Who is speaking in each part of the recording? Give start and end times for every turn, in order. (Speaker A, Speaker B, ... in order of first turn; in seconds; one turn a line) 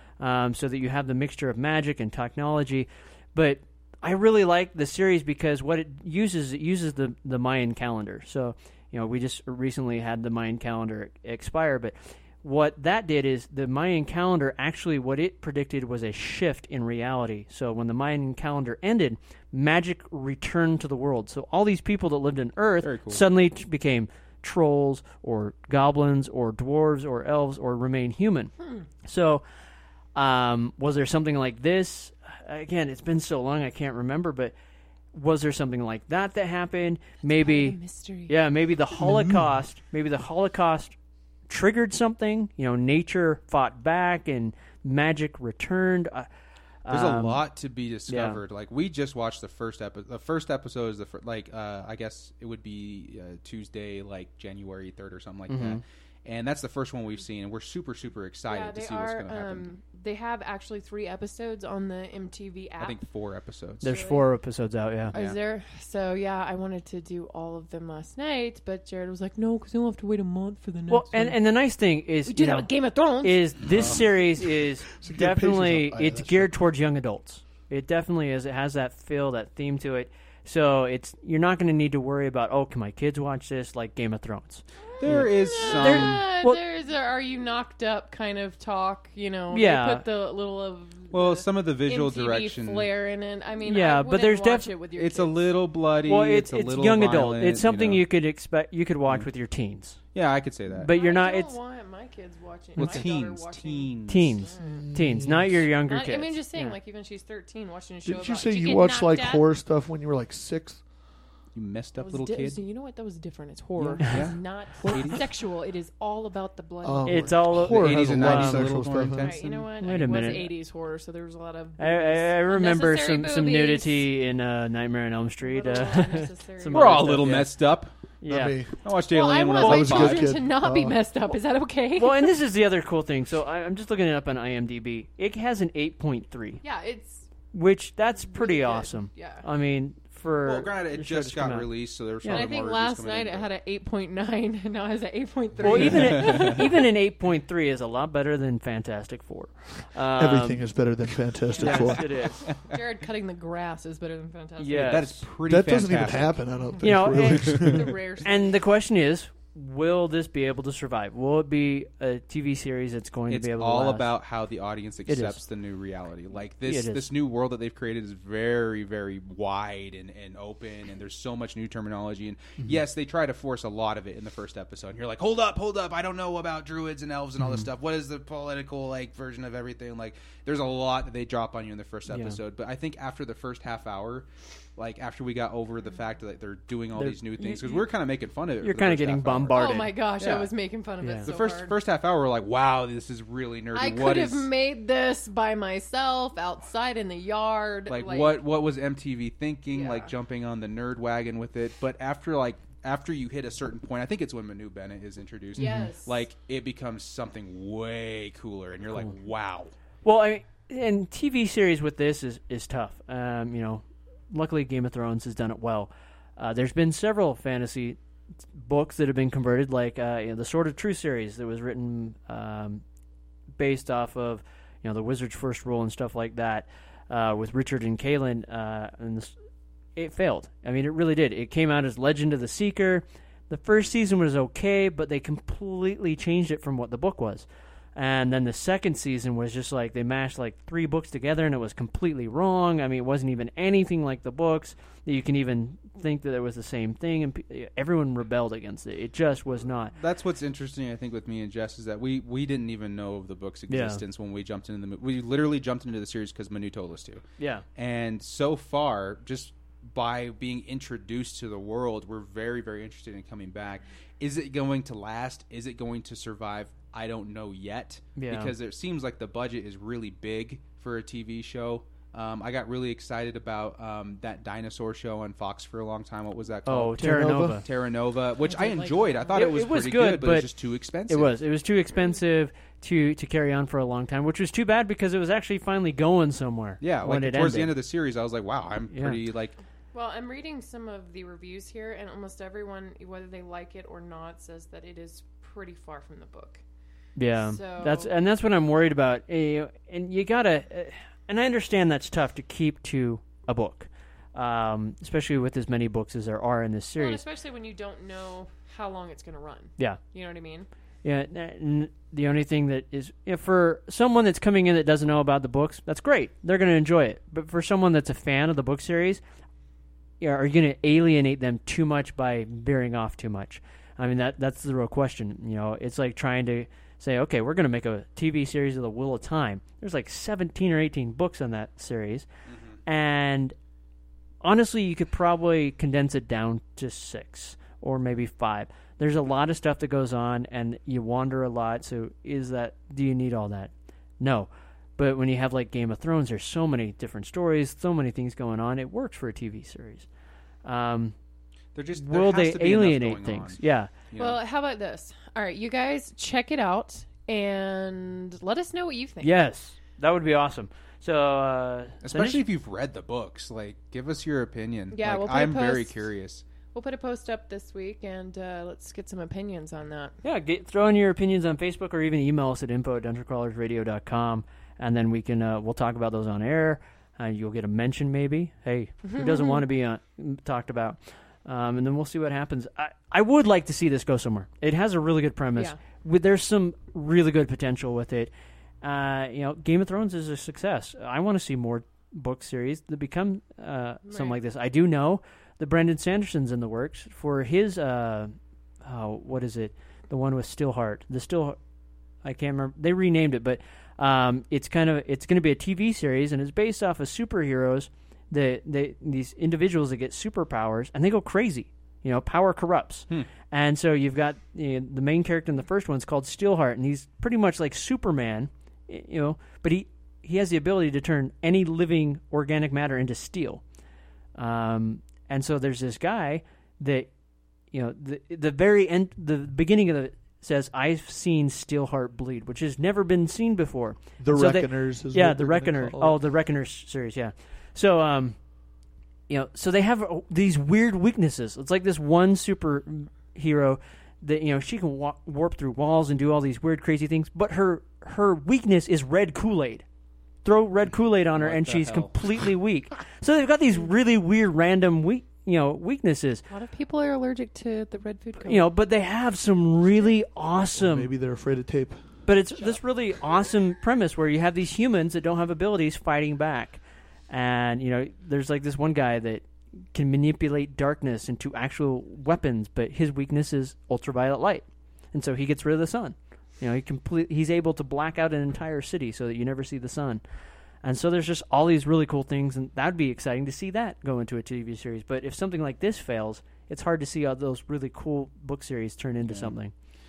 Speaker A: 0.2-28.5
Speaker B: 22.8-23.2
Speaker A: 29.0-29.4
Speaker A: 30.1-34.5
Speaker A: 35.1-37.8
Speaker C: 37.2-38.4
Speaker A: 38.3-40.9
Speaker D: 39.0-39.5
Speaker A: 41.5-46.3
Speaker A: 46.8-47.4
Speaker B: 46.9-59.7
Speaker A: 48.1-48.4
Speaker A: 55.5-55.8
Speaker C: 58.5-63.0
Speaker B: 62.8-63.9
Speaker A: 63.8-65.1
Speaker C: 63.8-64.2
Speaker C: 65.1-71.4
Speaker A: 70.9-86.6
Speaker C: 72.2-73.5
Speaker D: 73.7-74.0
Speaker D: 75.0-76.5
Speaker B: 85.0-86.2
Speaker C: 85.2-95.5
Speaker A: 89.5-90.0
Speaker B: 91.1-92.9
Speaker A: 93.6-94.7
Speaker B: 95.0-98.0
Speaker A: 96.0-100.0
Speaker B: 100.1-100.9
Speaker A: 100.7-101.5
Speaker C: 100.9-104.9
Speaker A: 102.8-103.0
Speaker B: 102.8-104.4
Speaker A: 104.1-106.8
Speaker D: 104.6-105.6
Speaker C: 105.9-109.4
Speaker D: 108.0-110.8
Speaker B: 111.5-112.6
Speaker C: 112.0-117.4
Speaker A: 114.0-114.2
Speaker B: 114.1-115.2
Speaker D: 114.8-115.1
Speaker D: 116.8-119.6
Speaker A: 117.0-118.7
Speaker B: 117.6-120.4
Speaker C: 119.2-124.1
Speaker A: 119.8-120.5
Speaker A: 121.8-127.5
Speaker C: 125.4-127.2
Speaker B: 126.7-127.9
Speaker A: 128.2-128.6
Speaker D: 128.2-128.7
Speaker B: 128.8-130.3
Speaker C: 129.1-132.3
Speaker D: 129.6-131.0
Speaker A: 131.9-136.6
Speaker C: 136.6-137.3
Speaker A: 137.5-141.7
Speaker C: 138.2-139.4
Speaker B: 140.4-143.5
Speaker A: 142.2-142.5
Speaker C: 142.3-146.9
Speaker B: 145.6-146.6
Speaker A: 145.6-150.6
Speaker D: 150.2-152.2
Speaker C: 151.6-155.0
Speaker A: 151.6-152.4
Speaker B: 152.4-152.7
Speaker A: 154.6-155.2
Speaker B: 154.8-156.4
Speaker D: 155.4-157.9
Speaker A: 156.8-157.7
Speaker C: 157.1-158.6
Speaker B: 157.4-158.0
Speaker A: 158.2-164.1
Speaker B: 163.3-190.5
Speaker A: 165.1-165.4
Speaker A: 166.7-167.1
Speaker A: 177.4-177.7
Speaker A: 182.1-182.4
Speaker A: 186.9-187.3
Speaker C: 187.4-187.9
Speaker A: 188.6-189.9
Speaker C: 189.5-191.7
Speaker A: 191.0-191.3
Speaker B: 191.2-194.5
Speaker C: 193.7-198.4
Speaker B: 197.9-209.7
Speaker C: 199.7-200.1
Speaker C: 205.6-206.2
Speaker A: 205.6-205.9
Speaker A: 210.0-218.0
Speaker A: 218.5-222.8
Speaker A: 223.6-229.3
Speaker A: 229.9-249.9
Speaker B: 249.9-257.2
Speaker A: 253.7-254.0
Speaker A: 257.4-257.6
Speaker B: 257.8-277.1
Speaker A: 268.1-268.5
Speaker A: 276.6-277.6
Speaker D: 277.0-277.6
Speaker B: 277.6-281.3
Speaker C: 278.4-279.6
Speaker A: 279.3-280.5
Speaker A: 281.1-287.8
Speaker B: 286.8-289.6
Speaker A: 288.9-289.2
Speaker C: 289.9-296.6
Speaker A: 297.1-307.2
Speaker C: 297.4-298.1
Speaker C: 306.9-310.7
Speaker A: 311.0-319.2
Speaker A: 320.2-332.2
Speaker B: 332.5-332.8
Speaker A: 332.9-333.5
Speaker A: 334.4-350.1
Speaker A: 350.6-351.1
Speaker B: 351.7-354.4
Speaker A: 351.9-353.9
Speaker C: 354.2-359.4
Speaker A: 359.2-362.4
Speaker B: 362.0-366.4
Speaker C: 364.9-365.9
Speaker C: 366.7-370.1
Speaker A: 370.2-388.3
Speaker C: 379.1-379.6
Speaker A: 388.8-398.3
Speaker C: 394.0-394.4
Speaker A: 398.8-401.6
Speaker A: 402.2-423.6
Speaker A: 424.4-427.1
Speaker A: 427.7-438.4
Speaker D: 434.2-436.2
Speaker A: 439.3-449.8
Speaker A: 450.4-456.4
Speaker B: 451.4-452.4
Speaker C: 456.5-458.7
Speaker A: 458.4-461.1
Speaker D: 460.8-462.0
Speaker A: 462.2-480.2
Speaker A: 480.8-489.7
Speaker B: 489.2-489.5